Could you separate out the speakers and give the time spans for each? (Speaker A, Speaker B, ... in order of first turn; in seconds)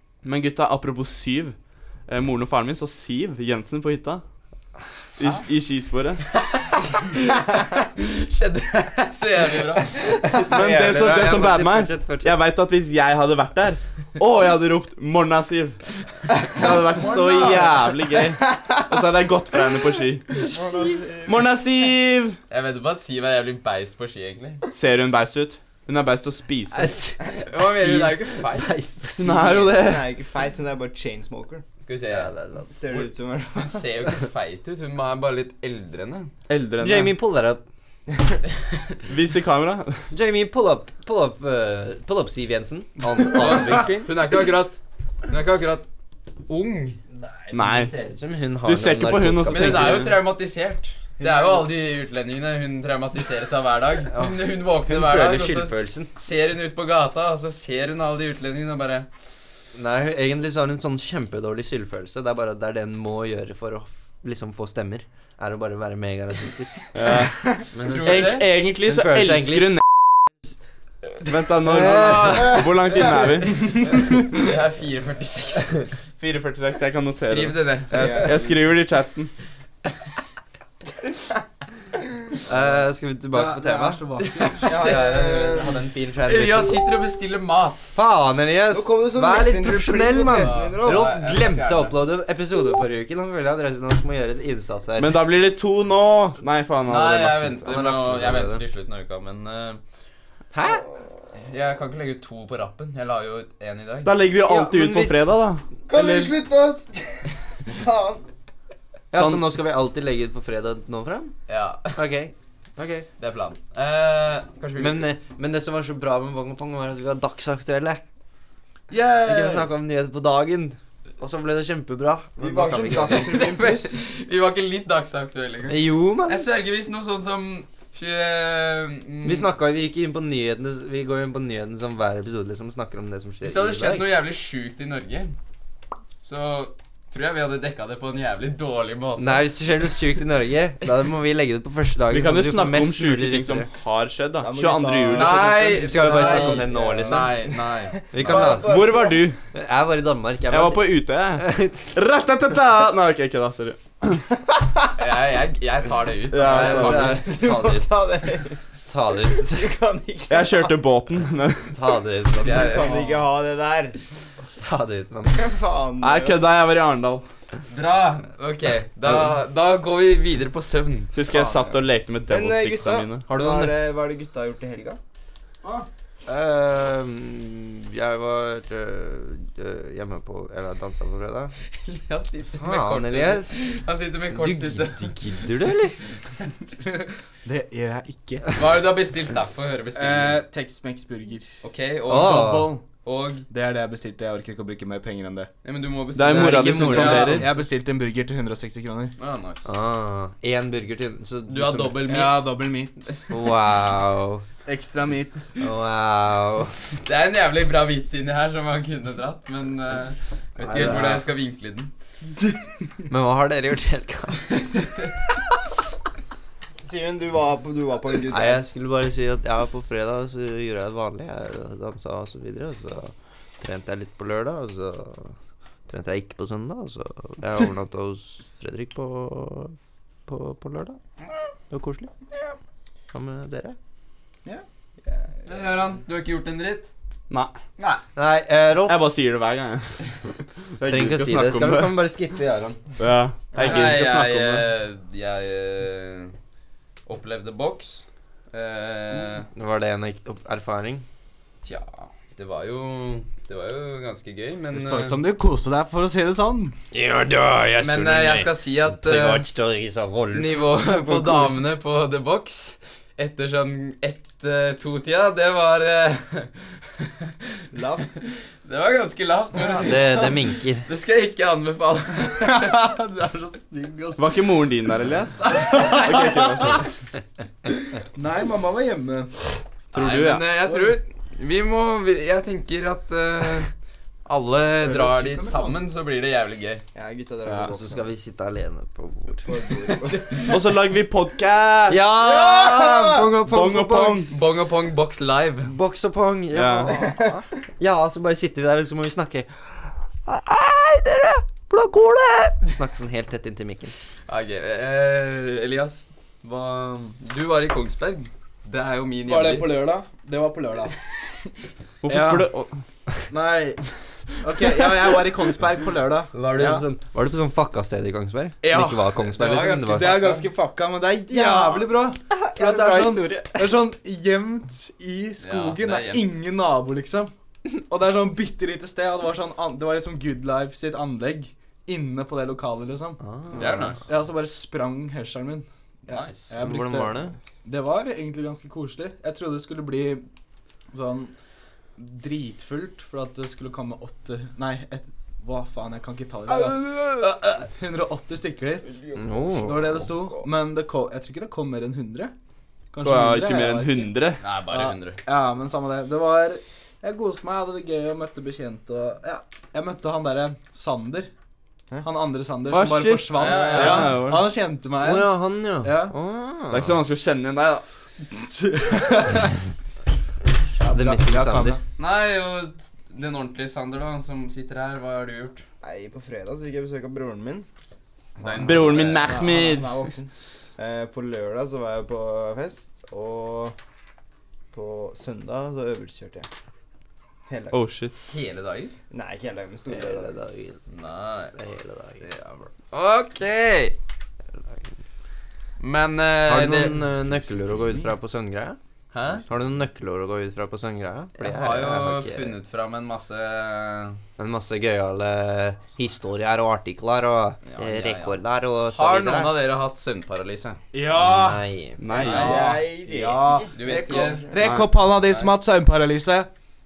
Speaker A: 0.2-1.6, 2.1-4.2, 5.2-6.2, 10.5-15.8, 16.4-20.6, 21.3-22.4, 24.7-26.9, 29.2-30.1, 36.5-37.2, 39.1-40.1, 47.5-47.9, 48.6-50.2, 66.9-69.9, 71.2-73.8, 76.2-79.3, 95.0-97.7, 104.0-106.3, 109.2-109.4, 142.1-145.4, 148.3-149.4, 150.5-154.2, 156.3-157.2, 160.3-161.7, 166.0-167.2, 171.1-173.2, 196.2-197.5, 237.3-237.6, 238.9-240.1, 240.8-242.0, 243.0-244.7, 274.2-276.9, 279.9-280.5, 290.5-292.0, 293.5-294.4, 296.5-296.9, 312.0-312.7, 333.6-333.9, 353.0-354.4, 362.7-364.5, 366.7-367.9, 378.6-380.0, 387.7-388.1, 412.0-412.7, 414.6-415.0
Speaker B: 6.5-10.4, 22.5-24.6, 27.5-28.8, 31.9-32.3, 33.5-36.3, 43.4-44.8, 45.3-45.9, 46.5-47.0, 49.5-59.1, 67.8-68.5, 74.3-75.9, 77.2-78.3, 84.4-84.8, 86.3-88.0, 90.3-92.0, 96.9-99.8, 101.5-104.2, 111.5-112.0, 113.2-115.1, 122.9-129.5, 133.4-135.3, 136.2-139.5, 145.1-148.3, 155.0-157.2, 162.4-163.1, 167.7-171.2, 181.8-185.5, 188.5-190.4, 191.6-192.5, 193.0-193.5, 195.6-197.5, 199.2-199.7, 201.5-202.6, 207.1-211.9, 214.7-215.1, 235.5-236.9, 243.6-246.3, 247.1-249.5, 251.6-255.2, 257.8-259.4, 260.3-267.1, 268.6-272.8, 279.9-283.7, 284.3-286.8, 294.3-295.7, 304.3-309.9, 319.3-320.5, 325.4-326.4, 333.5-334.0, 336.1-336.5, 354.4-355.2, 363.3-364.2, 372.0-375.6, 378.4-379.4, 388.3-388.9, 390.9-394.0, 395.8-397.2, 399.1-399.4, 401.4-404.2, 407.7-410.8, 412.1-412.6, 413.7-414.6, 415.2-415.5
Speaker C: 10.2-12.4, 26.7-29.6, 32.1-32.7, 36.8-37.6, 40.1-44.1, 47.1-50.0, 54.1-56.1, 59.8-66.9, 67.7-70.6, 71.6-72.6, 82.5-84.0, 84.6-86.8, 88.0-95.1, 97.7-98.6, 100.5-100.8, 104.4-105.2, 109.1-111.3, 111.9-113.1, 114.8-118.0, 119.2-123.3, 125.7-126.5, 129.2-134.2, 139.2-143.7, 145.7-147.4, 148.1-148.9, 149.5-151.9, 156.4-158.1, 158.9-159.8, 161.7-163.0, 164.6-165.5, 173.3-173.8, 176.3-181.5, 182.6-183.6, 184.3-186.0, 192.1-192.8, 196.3-197.5, 199.7-202.0, 203.3-204.4, 205.6-206.8, 210.6-211.2, 213.1-214.6, 218.3-225.3, 225.9-231.0, 231.7-232.1, 233.1-233.8, 238.2-239.0, 240.8-242.8, 249.5-251.1, 256.9-261.6, 269.8-270.9, 287.7-289.6, 291.9-294.4, 295.7-303.9, 316.3-320.4, 321.3-323.7, 333.2-333.9, 336.6-337.4, 349.2-350.1, 365.0-367.0, 370.9-371.8, 389.9-390.8, 391.6-392.2, 396.5-398.8, 399.4-402.6, 404.4-409.5, 411.1-412.0
Speaker D: 16.6-17.8, 83.3-84.7, 118.9-119.7, 186.8-188.7, 189.9-191.5, 192.1-192.9, 193.5-195.5, 196.7-199.2, 202.0-203.2, 204.7-205.6, 254.7-256.8, 272.3-274.3, 275.4-276.8, 277.7-279.3, 284.8-285.8, 309.3-311.0, 312.1-312.5, 313.3-313.9, 314.4-316.9, 318.6-333.2, 334.0-340.2, 340.9-341.3, 342.0-349.0, 349.6-352.3, 352.9-354.1, 354.7-361.3, 362.0-366.2, 368.6-369.5, 370.8-371.8, 410.9-416.5
Speaker E: 20.4-21.5, 29.3-31.6, 32.7-33.9, 51.2-51.7, 77.9-78.5, 84.6-85.8, 88.7-91.1, 105.9-108.2, 122.4-124.0, 144.4-149.3, 156.9-158.6, 159.3-160.8, 162.5-164.0, 165.3-166.5, 171.3-175.0, 216.8-218.6, 235.1-235.7, 267.7-268.1, 286.9-288.1, 289.4-290.5, 292.2-293.3, 296.9-297.2, 348.8-350.4, 375.8-377.7, 378.4-383.8, 384.7-386.5, 387.5-387.8, 389.1-390.4, 412.3-414.5